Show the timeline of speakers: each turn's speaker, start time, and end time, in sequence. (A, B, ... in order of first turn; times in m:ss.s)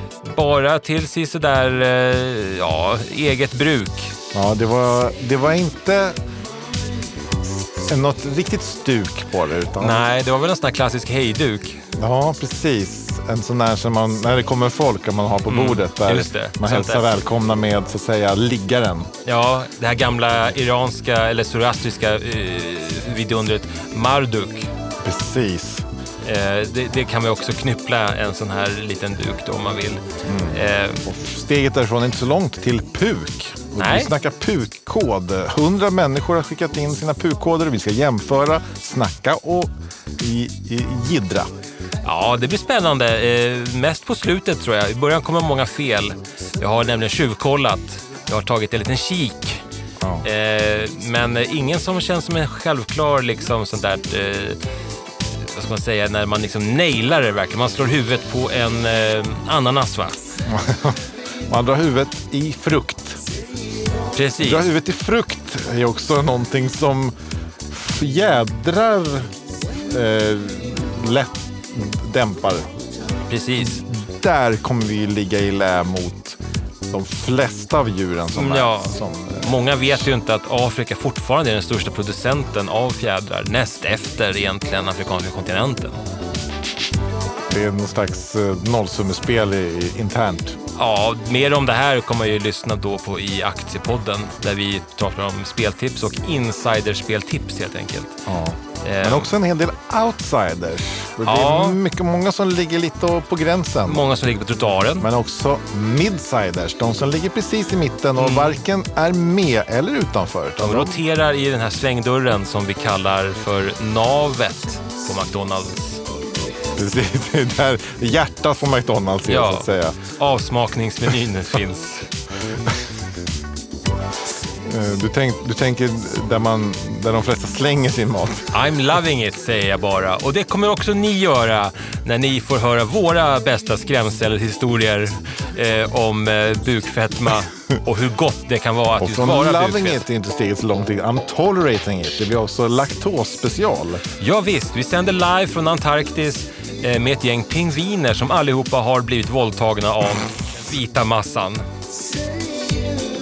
0:00.2-0:04.1 A
0:04.3-0:06.2 B
0:07.8-0:10.1 B
0:09.8-0:11.8 A
0:12.0-0:19.1 B
0:15.5-0:17.2 A
0:19.2-0:24.7 A
0:25.0-0:25.9 B
0:26.2-0:31.0 A
0:30.2-0:41.5 B
0:33.8-0:34.1 A
0:42.0-0:49.6 A
0:50.0-0:50.3 B
0:50.2-0:54.6 A
0:55.4-1:00.2 A
1:00.5-1:01.0 B
1:01.5-1:03.2 B
1:04.2-1:04.7 A
1:04.4-1:07.2 B
1:07.7-1:09.3 B
1:09.9-1:12.7 B
1:13.3-1:13.8 A
1:13.7-1:19.5 B
1:18.3-1:26.0 A
1:27.5-1:30.6 B
1:30.8-1:38.2 A
1:38.3-1:44.1 B
1:38.8-1:39.3 A
1:41.2-1:41.8 A
1:43.8-1:45.1 A
1:45.0-1:51.0 B
1:48.2-1:48.6 A
1:50.6-1:56.0 A
1:56.8-2:00.0 B
1:59.3-2:02.1 A
2:04.6-2:08.5 B
2:08.5-2:20.0 A
2:19.0-2:24.0 B
2:24.2-2:31.6 A